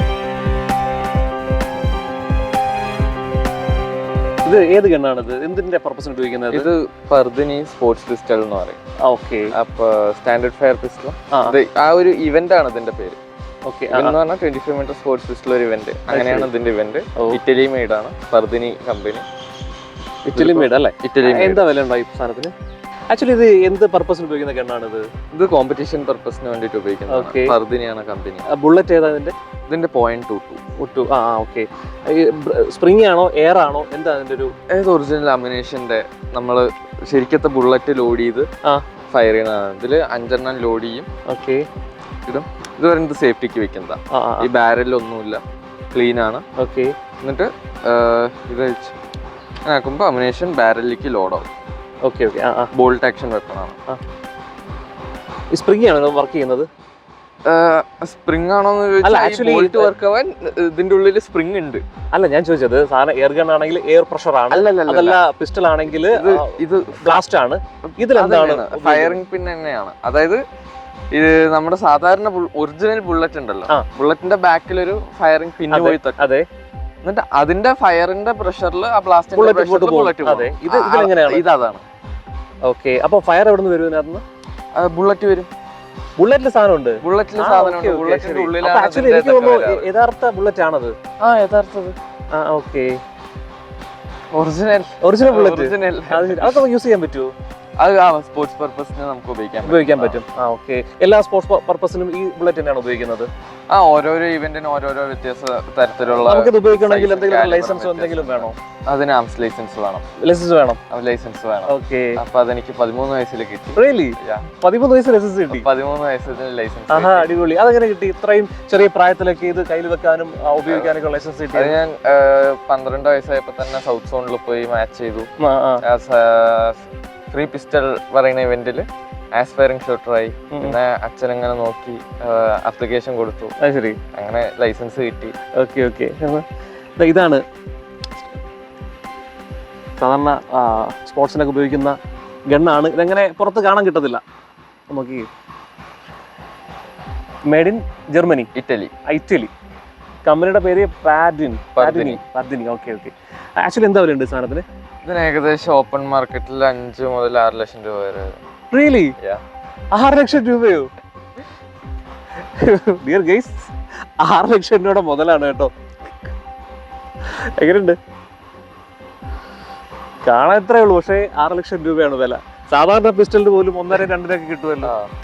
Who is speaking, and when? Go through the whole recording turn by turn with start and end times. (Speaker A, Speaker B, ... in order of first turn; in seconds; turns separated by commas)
Speaker A: 4.4-6.7, Speaker B: 6.5-8.8, Speaker A: 9.0-9.5, Speaker B: 9.6-13.2, Speaker A: 11.3-11.6, Speaker A: 13.7-14.2, Speaker B: 13.9-19.2, Speaker A: 16.1-16.5, Speaker A: 20.2-22.5, Speaker B: 20.3-21.6, Speaker A: 23.1-25.1, Speaker B: 25.3-28.4, Speaker A: 27.1-27.6, Speaker A: 28.5-29.3, Speaker B: 29.7-30.6, Speaker A: 30.8-34.5, Speaker B: 34.7-38.5, Speaker B: 39.1-41.1, Speaker A: 41.3-41.6, Speaker B: 42.2-46.4, Speaker A: 44.1-44.5, Speaker A: 46.6-46.9, Speaker B: 47.2-48.9, Speaker B: 49.6-51.5, Speaker A: 52.0-52.7, Speaker B: 52.8-53.8, Speaker A: 55.5-56.7, Speaker B: 57.4-61.8, Speaker A: 59.0-59.9, Speaker A: 62.1-69.2, Speaker B: 64.5-65.2, Speaker B: 66.1-67.2, Speaker B: 67.8-70.4, Speaker B: 71.1-76.2, Speaker A: 75.7-76.5, Speaker B: 77.0-81.8, Speaker A: 79.3-81.5, Speaker A: 82.6-84.2, Speaker B: 84.7-85.5, Speaker A: 86.2-90.9, Speaker B: 87.0-89.9, Speaker B: 91.2-92.0, Speaker A: 92.3-93.0, Speaker B: 94.3-96.7, Speaker A: 95.0-97.3, Speaker B: 97.8-100.2, Speaker A: 99.6-103.3, Speaker B: 103.7-110.0, Speaker A: 106.1-108.6, Speaker A: 110.2-110.8, Speaker B: 110.9-114.5, Speaker A: 111.7-112.2, Speaker A: 113.8-115.7, Speaker B: 115.5-117.2, Speaker A: 116.9-121.8, Speaker B: 120.7-120.9, Speaker B: 121.5-125.3, Speaker A: 125.4-125.8, Speaker B: 125.8-126.8, Speaker B: 127.3-133.5, Speaker A: 130.5-130.8, Speaker A: 133.6-134.0, Speaker B: 134.1-135.3, Speaker A: 135.6-136.4, Speaker A: 137.0-137.4, Speaker A: 140.0-141.9, Speaker A: 142.5-144.2, Speaker A: 144.9-145.3, Speaker A: 147.5-148.5, Speaker B: 148.5-148.9, Speaker A: 149.1-149.5, Speaker A: 150.2-154.6, Speaker B: 151.7-152.2, Speaker B: 155.0-158.4, Speaker A: 158.7-159.1, Speaker A: 159.9-160.9, Speaker A: 162.6-165.7, Speaker A: 167.3-168.0, Speaker A: 170.2-174.9, Speaker B: 174.8-175.1